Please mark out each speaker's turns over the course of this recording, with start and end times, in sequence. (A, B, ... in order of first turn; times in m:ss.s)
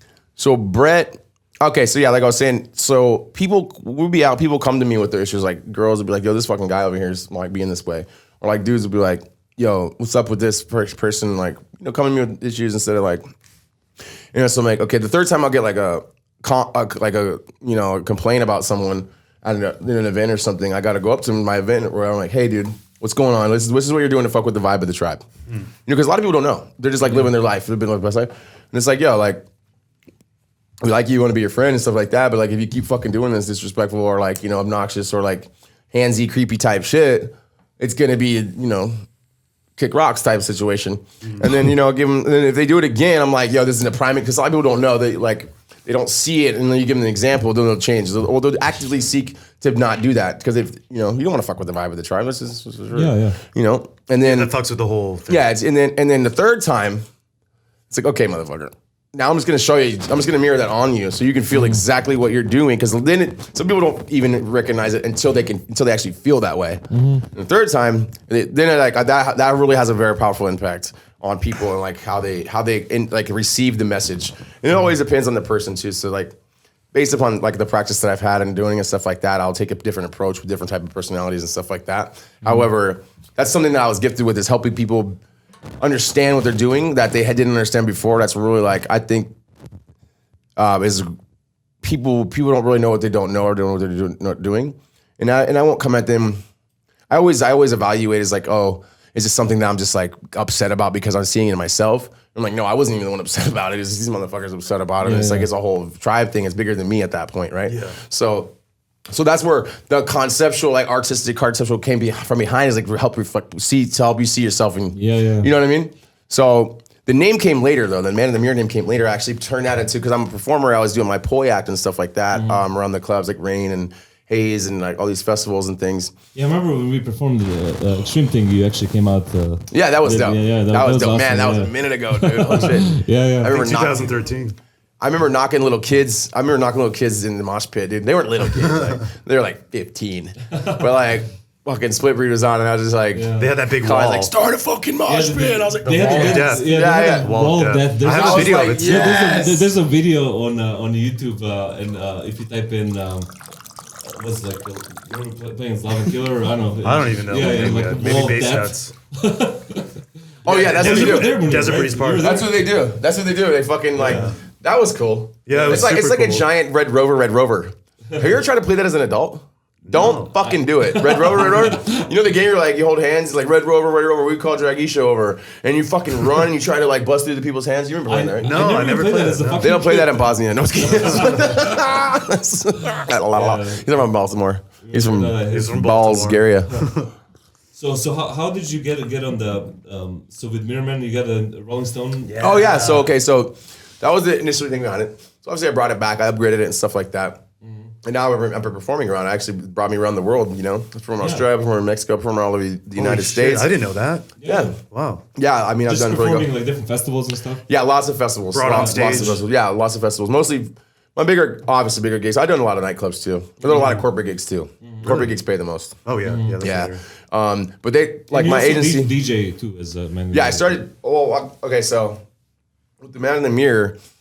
0:00.4-0:13.3 A
0:14.3-0:25.2 A
0:25.8-0:29.4 A
0:30.8-0:39.0 A
0:39.8-0:54.5 A
0:41.2-0:41.5 B
0:52.9-0:53.4 C
0:54.2-0:55.5 B
0:55.3-0:57.0 A
0:57.9-1:16.3 A
1:01.5-1:01.8 C
1:06.9-1:07.3 C
1:16.9-1:25.2 A
1:25.8-1:29.3 A
1:30.6-1:31.2 A
1:31.8-1:36.4 A
1:37.1-1:48.5 A
1:45.0-1:45.5 C
1:47.7-1:48.0 B
1:49.1-2:06.1 A
1:55.0-1:55.5 C
2:02.3-2:02.6 C
2:06.4-2:13.6 C
2:09.7-2:14.2 A
2:13.4-2:14.6 B
2:15.0-2:27.3 A
2:20.6-2:20.8 C
2:23.1-2:23.6 C
2:23.4-2:24.3 B
2:25.1-2:33.3 C
2:25.9-2:29.4 B
2:28.1-2:29.7 A
2:34.1-2:39.9 C
2:36.8-2:38.9 B
2:37.4-2:38.3 A
2:40.4-2:42.8 C
2:40.4-2:58.8 A
2:40.5-2:42.4 B
2:44.0-2:44.4 B
2:44.0-2:44.3 C
2:45.5-2:46.5 B
2:45.6-2:45.8 C
2:49.9-2:50.3 B
2:50.5-2:52.0 C
2:58.1-3:01.9 C
2:58.4-2:59.7 B
2:59.6-3:06.8 A
3:03.0-3:04.0 C
3:04.8-3:06.4 C
3:05.5-3:07.1 B
3:07.8-3:12.9 C
3:12.3-3:13.1 B
3:12.4-3:17.4 A
3:17.6-3:17.9 C
3:18.0-3:23.7 A
3:21.2-3:21.5 C
3:23.0-3:25.2 B
3:24.4-3:24.7 C
3:24.4-3:24.8 A
3:25.4-3:26.5 A
3:25.9-3:27.6 C
3:27.7-3:36.0 A
3:28.5-3:29.4 B
3:28.7-3:29.4 C
3:33.7-3:34.0 B
3:34.8-3:35.2 C
3:35.0-3:35.3 B
3:36.0-3:37.0 B
3:36.2-3:36.6 C
3:36.6-3:39.1 A
3:38.3-3:40.8 C
3:40.3-3:42.2 A
3:43.0-3:44.0 A